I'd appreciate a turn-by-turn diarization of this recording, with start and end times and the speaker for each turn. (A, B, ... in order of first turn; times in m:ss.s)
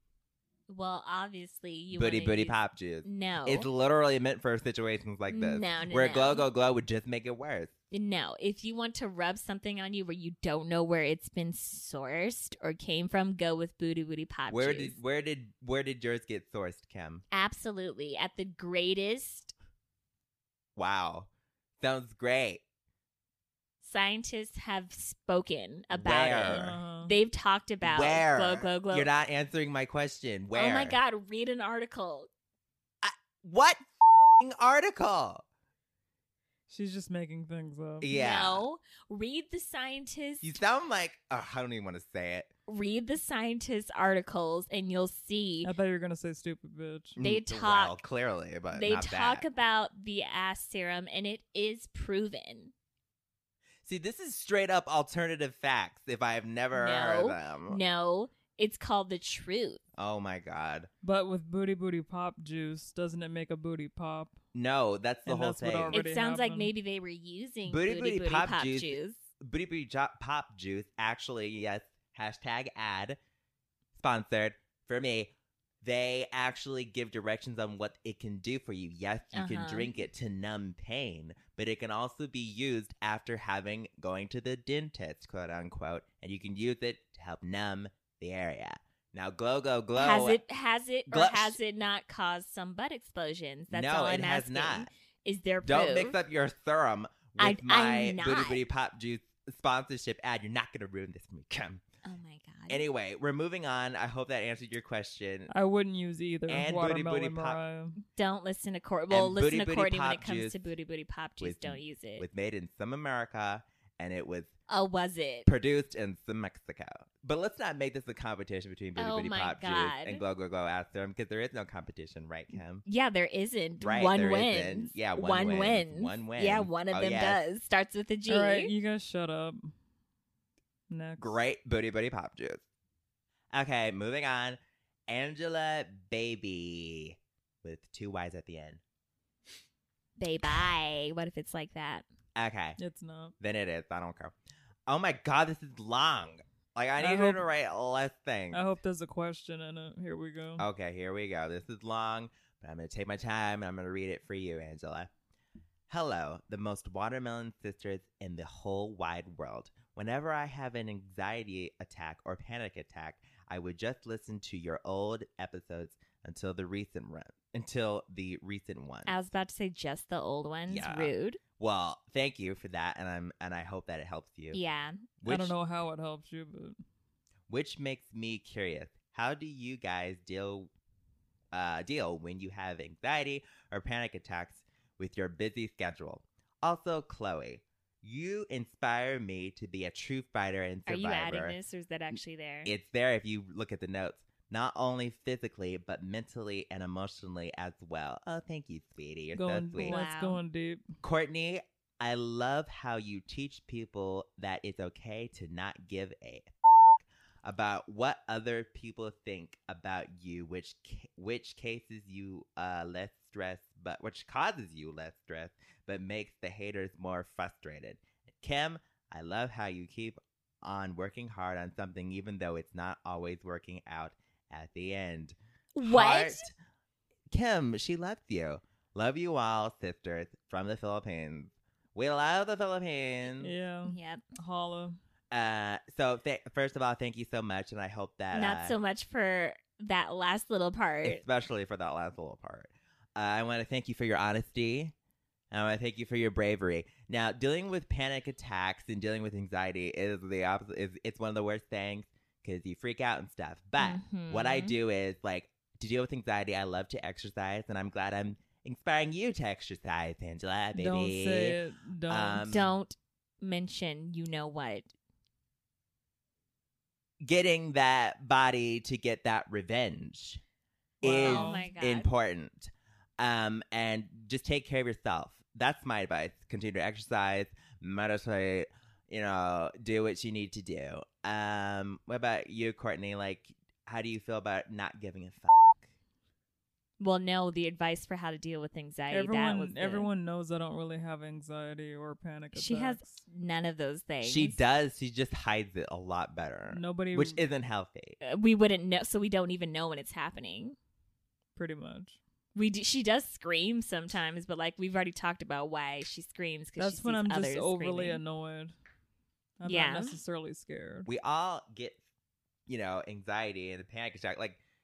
0:00.7-0:03.7 A
0:01.9-0:07.7 B
0:05.3-0:06.5 A
0:07.9-0:15.0 A
0:14.5-0:17.2 B
0:17.3-0:19.5 A
0:20.8-0:22.6 B
0:23.8-0:29.1 A
0:25.9-0:26.8 B
0:26.4-0:27.2 C
0:27.8-0:31.0 B
0:30.5-0:32.3 A
0:33.0-0:35.4 B
0:36.7-0:38.1 C
0:38.0-0:38.6 B
0:38.1-0:40.6 A
0:40.4-0:42.5 B
0:42.7-0:45.7 A
0:45.6-0:47.2 C
0:47.2-0:49.4 B
0:47.2-0:48.0 A
0:48.7-0:52.7 A
0:53.8-0:57.8 B
0:56.7-0:59.8 A
1:00.0-1:00.9 B
1:01.0-1:04.4 C
1:04.5-1:06.0 B
1:05.2-1:06.7 C
1:05.9-1:09.2 A
1:07.7-1:13.2 B
1:13.9-1:30.4 B
1:19.3-1:19.9 A
1:29.9-1:36.2 A
1:31.1-1:31.6 B
1:33.7-1:34.9 B
1:35.6-1:41.8 B
1:37.4-1:38.6 A
1:42.0-1:42.8 A
1:42.7-1:45.5 B
1:45.5-1:48.0 C
1:46.5-1:47.6 B
1:48.1-1:52.2 A
1:49.1-1:50.6 B
1:51.4-1:54.5 B
1:54.7-1:55.5 A
1:55.4-2:02.8 B
1:59.0-2:00.2 A
2:02.8-2:08.7 A
2:03.8-2:07.4 B
2:08.3-2:09.7 C
2:10.9-2:11.4 C
2:11.2-2:12.6 B
2:13.5-2:18.8 B
2:20.2-2:22.0 A
2:22.4-2:22.8 B
2:22.8-2:23.3 C
2:23.4-2:24.3 B
2:24.9-2:28.6 B
2:27.0-2:27.4 C
2:28.5-2:30.6 C
2:30.6-2:35.1 B
2:35.9-2:49.1 B
2:49.0-2:51.4 A
2:50.7-2:54.6 B
2:54.5-2:55.0 A
2:55.2-2:55.5 B
2:55.2-2:56.8 C
2:57.5-3:00.7 B
3:01.5-3:11.6 B
3:10.9-3:12.7 A
3:12.1-3:20.0 B
3:19.4-3:20.9 C
3:19.8-3:20.4 A
3:21.0-3:46.5 B
3:45.7-3:46.4 A
3:47.3-3:53.5 B
3:53.4-3:55.0 C
3:53.8-3:54.2 A
3:55.3-3:58.7 B
3:58.3-4:01.2 A
4:01.0-4:04.9 B
4:05.5-4:21.6 B
4:13.8-4:14.7 A
4:20.7-4:22.5 C
4:22.1-4:22.7 B
4:22.5-4:24.9 A
4:27.2-4:30.4 B
4:31.0-4:31.6 C
4:31.0-4:45.9 B
4:31.2-4:32.1 A
4:47.0-4:50.1 A
4:49.1-4:53.2 C
4:52.5-4:54.6 A
4:54.2-4:58.2 B
4:56.7-4:57.4 C
4:58.2-5:00.8 A
5:01.5-5:02.2 C
5:02.5-5:08.2 A
5:06.8-5:08.7 C
5:09.6-5:11.1 C
5:09.6-5:10.2 A
5:11.0-5:12.0 B
5:12.7-5:14.6 B